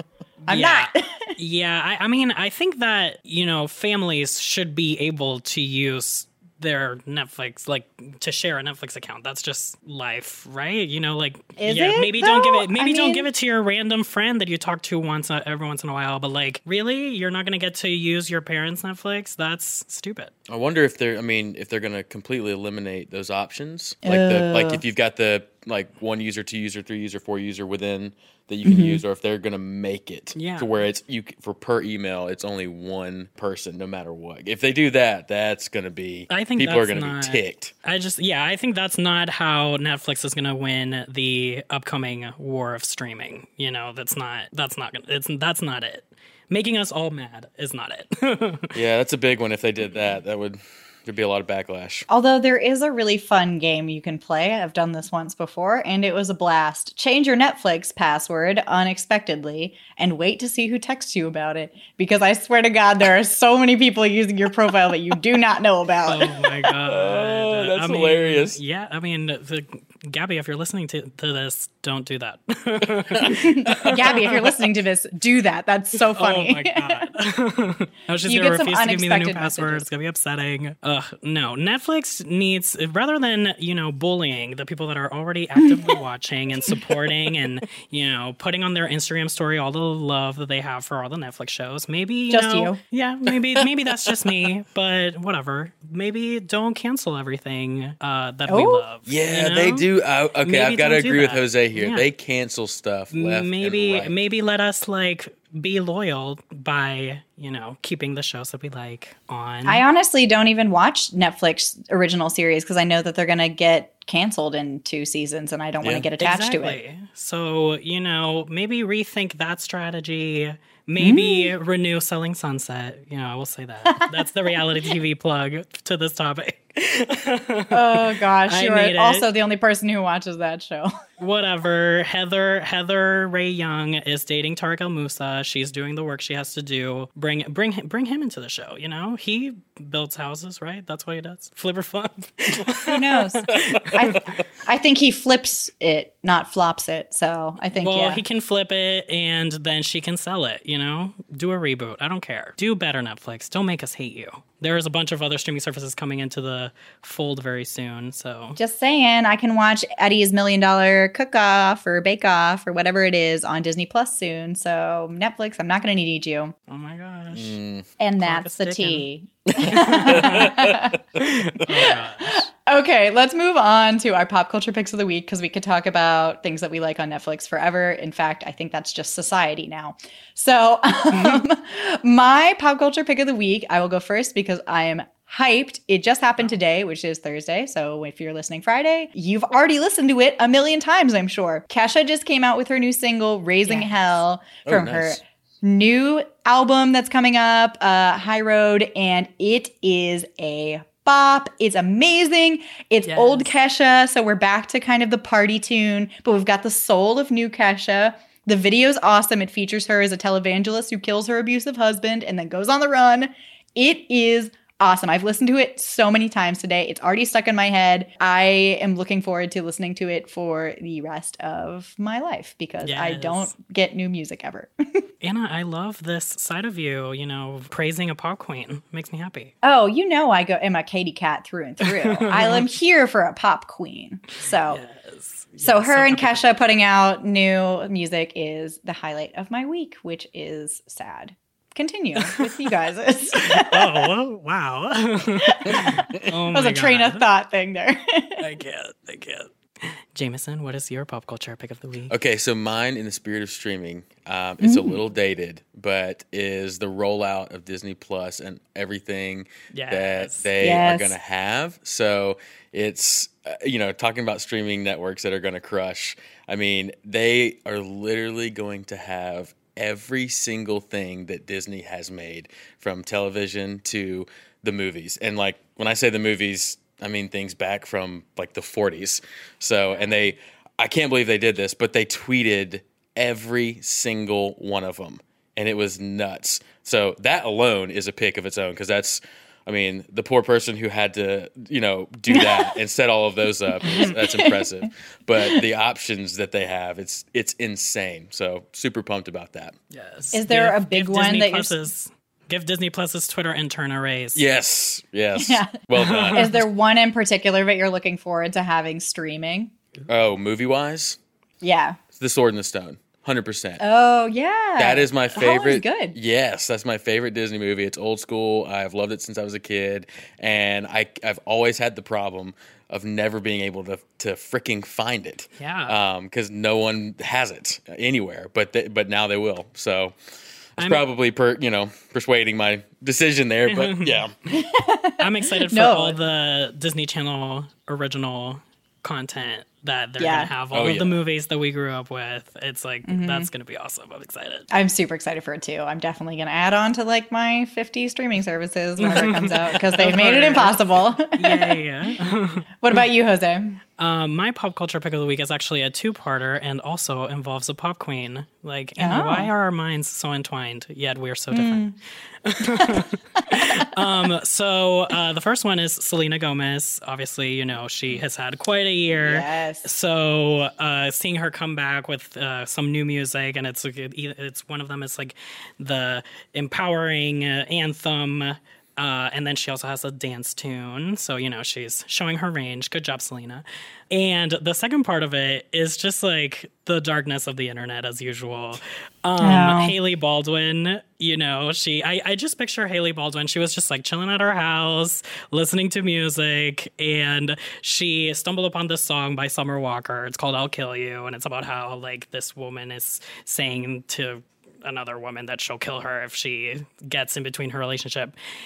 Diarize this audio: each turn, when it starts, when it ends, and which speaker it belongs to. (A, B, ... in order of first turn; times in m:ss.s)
0:00.4-0:01.1 A
0:00.5-0:20.3 B
0:11.6-0:13.3 A
0:20.5-0:37.7 C
0:24.0-0:24.8 A
0:28.6-0:29.0 A
0:30.3-0:30.7 B
0:36.3-0:48.7 B
0:48.7-0:52.1 C
0:52.1-1:06.2 A
1:06.1-1:14.5 B
1:06.4-1:08.6 C
1:13.2-1:17.0 A
1:16.1-1:39.9 B
1:18.2-1:19.8 A
1:25.6-1:25.9 A
1:32.3-1:32.8 A
1:38.5-1:38.8 A
1:39.0-1:44.1 C
1:40.4-1:42.1 B
1:43.1-1:49.8 B
1:49.6-1:56.8 A
1:56.2-2:09.3 B
2:01.0-2:01.5 A
2:07.7-2:10.9 A
2:11.2-2:24.2 B
2:22.8-2:28.2 A
2:27.7-2:38.6 B
2:38.6-2:46.5 A
2:46.7-2:47.6 B
2:47.3-2:47.9 C
2:48.0-2:51.0 A
2:48.2-2:49.1 B
2:49.5-2:51.2 C
2:49.6-2:52.4 B
2:51.8-3:45.0 A
3:01.1-3:01.4 B
3:13.6-3:13.9 B
3:14.7-3:15.2 C
3:23.0-3:23.5 B
3:42.8-3:43.5 B
3:45.2-3:49.5 B
3:49.6-3:54.8 A
3:51.8-3:52.6 B
3:54.4-3:56.5 B
3:55.6-4:04.1 A
4:02.2-4:02.7 B
4:03.3-4:07.2 B
4:05.5-4:08.4 A
4:08.4-4:12.1 B
4:12.1-4:59.7 C
4:14.6-4:15.0 A
4:19.7-4:20.5 B
4:20.6-4:21.1 A
4:39.9-4:40.3 B
4:52.3-4:52.7 A
4:53.9-4:54.5 A
4:59.9-5:04.4 B
5:00.3-5:01.8 A
5:04.3-5:06.5 C
5:05.4-5:05.7 A
5:06.0-5:06.6 B
5:06.3-5:09.7 A
5:10.1-5:11.2 C
5:11.6-5:12.0 A
5:12.2-5:13.8 C
5:13.8-5:16.2 A
5:14.8-5:30.1 C
5:25.6-5:25.9 B
5:30.8-5:31.0 B
5:30.8-5:34.3 C
5:33.7-5:34.3 B
5:34.5-5:36.2 A
5:35.2-5:44.7 B
5:40.2-5:40.5 A
5:40.7-5:41.1 C
5:43.0-5:43.5 A
5:44.7-5:51.8 A
5:49.0-5:50.8 B
5:51.3-5:53.0 B
5:52.8-5:53.8 A
5:54.0-6:01.8 B
5:59.0-5:59.5 A
6:01.5-6:02.0 A
6:02.4-6:48.3 B
6:02.7-6:03.4 A
6:09.2-6:09.9 A
6:29.4-6:29.9 A